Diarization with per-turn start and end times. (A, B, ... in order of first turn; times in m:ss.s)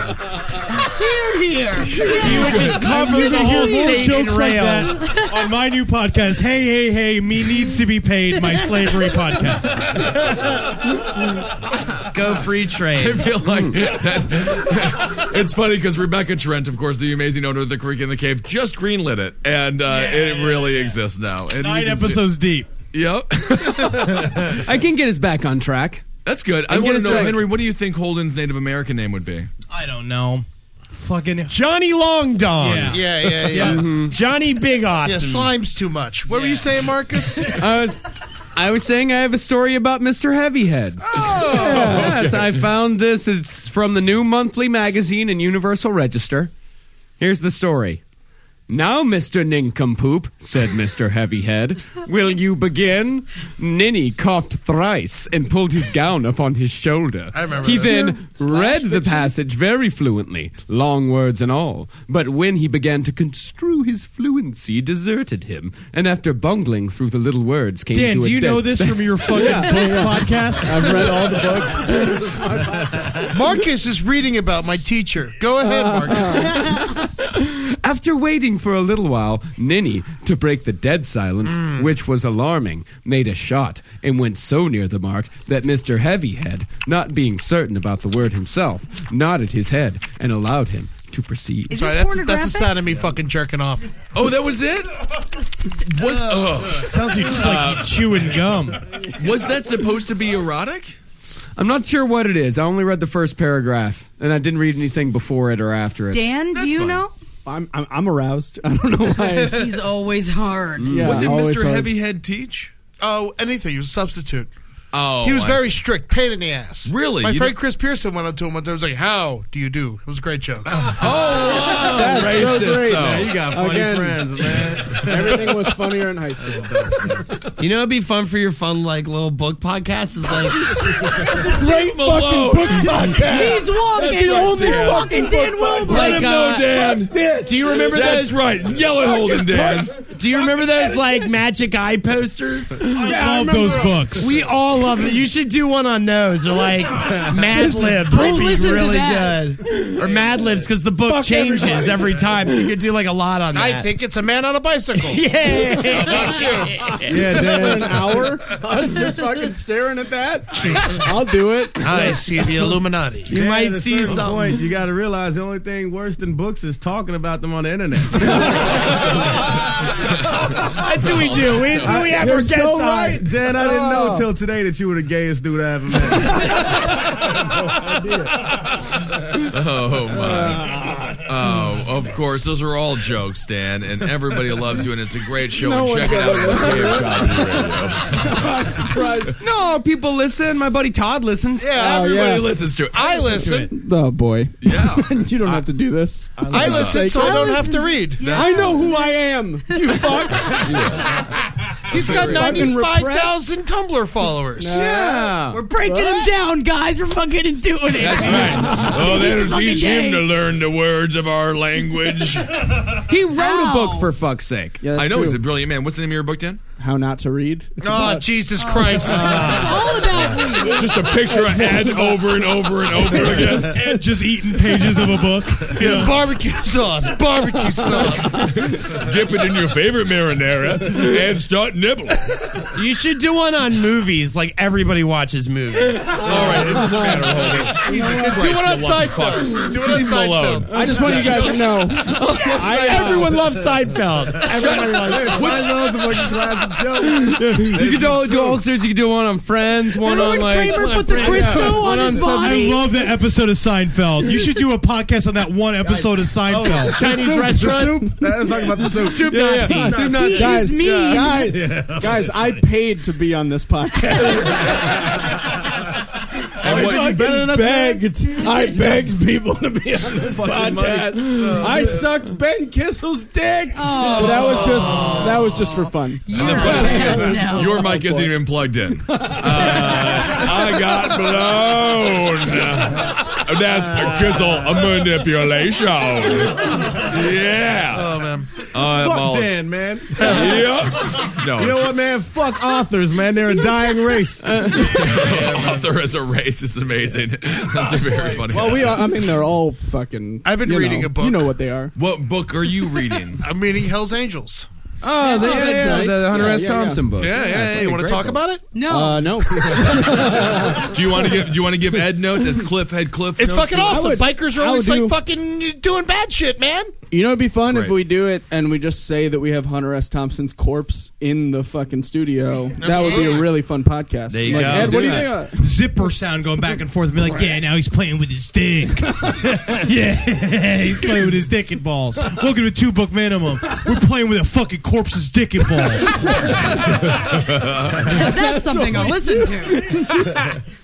0:00.8-0:04.3 A
0:02.0-0:10.0 B
0:02.0-0:02.8 C
0:02.2-0:05.0 D
0:04.9-0:05.5 A
0:08.4-0:08.9 A
0:12.1-0:13.3 D
0:12.9-0:22.2 C
0:13.5-0:13.8 E
0:19.9-0:21.0 B
0:21.6-0:22.7 B
0:22.9-0:24.6 C
0:24.6-0:26.1 E
0:26.2-0:29.5 C
0:26.7-0:27.5 E
0:29.7-0:31.6 B
0:31.5-0:35.5 D
0:32.6-0:33.9 B
0:32.9-0:33.8 F
0:33.6-0:34.1 E
0:35.0-0:37.6 F
0:36.3-0:36.7 B
0:37.3-0:37.6 B
0:37.5-0:46.5 E
0:41.2-0:42.2 F
0:41.6-0:42.2 G
0:47.2-0:48.0 E
0:48.7-1:09.1 E
0:57.3-0:58.2 F
0:57.6-0:59.3 G
1:07.9-1:11.6 B
1:09.3-1:13.3 G
1:13.2-1:16.5 F
1:16.1-1:16.5 G
1:17.2-1:31.9 E
1:21.4-1:21.9 F
1:31.7-1:32.9 A
1:31.7-1:33.9 F
1:34.1-1:35.0 C
1:35.8-1:38.4 C
1:36.8-1:38.8 B
1:39.1-1:41.0 C
1:41.6-1:46.2 E
1:46.1-1:47.1 A
1:46.5-1:47.0 C
1:47.5-1:49.6 G
1:49.3-1:49.7 F
1:49.5-1:51.2 A
1:50.8-1:51.3 E
1:50.9-1:51.9 G
1:51.0-1:52.7 C
1:53.0-1:54.5 F
1:54.9-1:55.8 C
1:55.2-2:00.9 F
1:56.8-1:57.6 C
2:00.9-2:03.4 C
2:01.5-2:07.4 G
2:02.3-2:05.9 H
2:06.5-2:07.1 H
2:07.6-2:10.9 D
2:10.8-2:18.0 G
2:11.2-2:15.1 C
2:13.2-2:16.3 A
2:15.9-2:17.1 C
2:15.9-2:18.5 D
2:17.7-2:20.1 C
2:19.0-2:21.0 G
2:20.1-2:23.0 D
2:23.0-2:24.0 G
2:23.0-2:24.4 B
2:23.0-2:24.2 H
2:24.2-2:33.9 D
2:27.5-2:28.2 G
2:27.6-2:29.5 A
2:30.0-2:30.3 H
2:31.0-2:32.3 G
2:33.5-2:35.2 F
2:35.0-2:37.5 D
2:35.6-2:36.1 G
2:35.9-2:36.9 F
2:37.0-2:38.3 H
2:37.1-2:42.4 G
2:40.6-2:41.0 F
2:41.8-2:43.4 F
2:43.3-2:44.7 D
2:43.3-2:48.8 H
2:48.3-2:48.7 G
2:50.7-2:52.0 C
2:50.8-2:53.2 D
2:51.8-2:58.4 H
2:51.8-2:54.3 G
2:59.4-3:08.5 C
3:00.1-3:01.2 G
3:05.6-3:09.4 G
3:09.4-3:11.9 E
3:11.6-3:12.1 F
3:11.8-3:13.0 C
3:11.8-3:17.7 G
3:12.9-3:13.7 F
3:14.6-3:15.1 C
3:16.5-3:17.1 C
3:16.5-3:18.3 F
3:17.0-3:20.2 A
3:18.2-3:18.8 C
3:18.3-3:21.0 G
3:20.7-3:21.0 C
3:21.9-3:24.8 F
3:21.9-3:22.7 C
3:22.0-3:23.4 G
3:24.6-3:26.3 G
3:24.7-3:25.6 E
3:25.5-3:30.3 A
3:27.9-3:32.7 C
3:28.3-3:29.0 G
3:33.1-3:34.8 E
3:33.3-3:34.1 A
3:34.8-3:35.4 G
3:35.0-3:36.6 C
3:36.8-3:38.2 G
3:37.8-3:40.0 F
3:38.6-3:41.2 A
3:39.0-3:39.4 G
3:39.2-3:39.6 C
3:40.1-3:43.8 C
3:41.3-3:42.4 G
3:42.9-3:43.8 G
3:43.6-3:46.2 B
3:45.7-3:48.5 F
3:48.4-3:52.7 C
3:52.7-3:56.4 D
3:56.2-4:02.3 C
3:56.3-3:58.3 G
3:56.6-4:01.5 F
4:00.7-4:03.4 G
4:00.9-4:01.4 H
4:02.1-4:05.7 D
4:03.2-4:03.4 H
4:04.4-4:06.7 C
4:04.5-4:08.7 H
4:07.2-4:11.4 E
4:10.0-4:12.9 A
4:10.4-4:12.8 D
4:11.8-4:17.1 B
4:16.4-4:20.4 H
4:16.8-4:18.2 D
4:18.7-4:19.1 G
4:18.8-4:20.0 D
4:19.3-4:21.5 E
4:19.7-4:25.2 G
4:20.0-4:21.5 A
4:21.4-4:22.6 H
4:26.6-4:28.1 H
4:26.6-4:38.4 G
4:26.6-4:27.1 C
4:30.1-4:32.1 H
4:31.4-4:31.8 F
4:33.7-4:37.9 A
4:34.9-4:35.5 C
4:36.3-4:49.6 C
4:36.5-4:37.5 H
4:39.1-4:40.6 G
4:43.9-4:44.8 H
4:47.9-4:48.5 F
4:48.8-4:50.7 H
4:50.2-4:52.0 C
4:50.2-4:50.6 F
4:51.2-4:54.5 H
4:54.4-4:55.1 E
4:54.8-4:59.2 C
4:54.8-4:55.9 F
4:58.5-5:01.9 G
5:00.4-5:01.5 F
5:02.0-5:03.4 C
5:03.4-5:04.7 F
5:05.0-5:08.4 E
5:05.2-5:07.3 G
5:05.2-5:06.0 A
5:07.2-5:08.7 F
5:08.7-5:09.3 A
5:08.8-5:11.0 G
5:10.8-5:14.0 C
5:13.4-5:16.9 F
5:13.9-5:15.2 G
5:17.1-5:25.9 G
5:17.7-5:18.0 C
5:22.8-5:23.5 F
5:23.0-5:23.2 A
5:24.3-5:25.4 D
5:24.5-5:25.0 H
5:24.5-5:36.4 B
5:37.4-5:38.2 C
5:38.1-5:40.1 A
5:38.1-5:40.5 G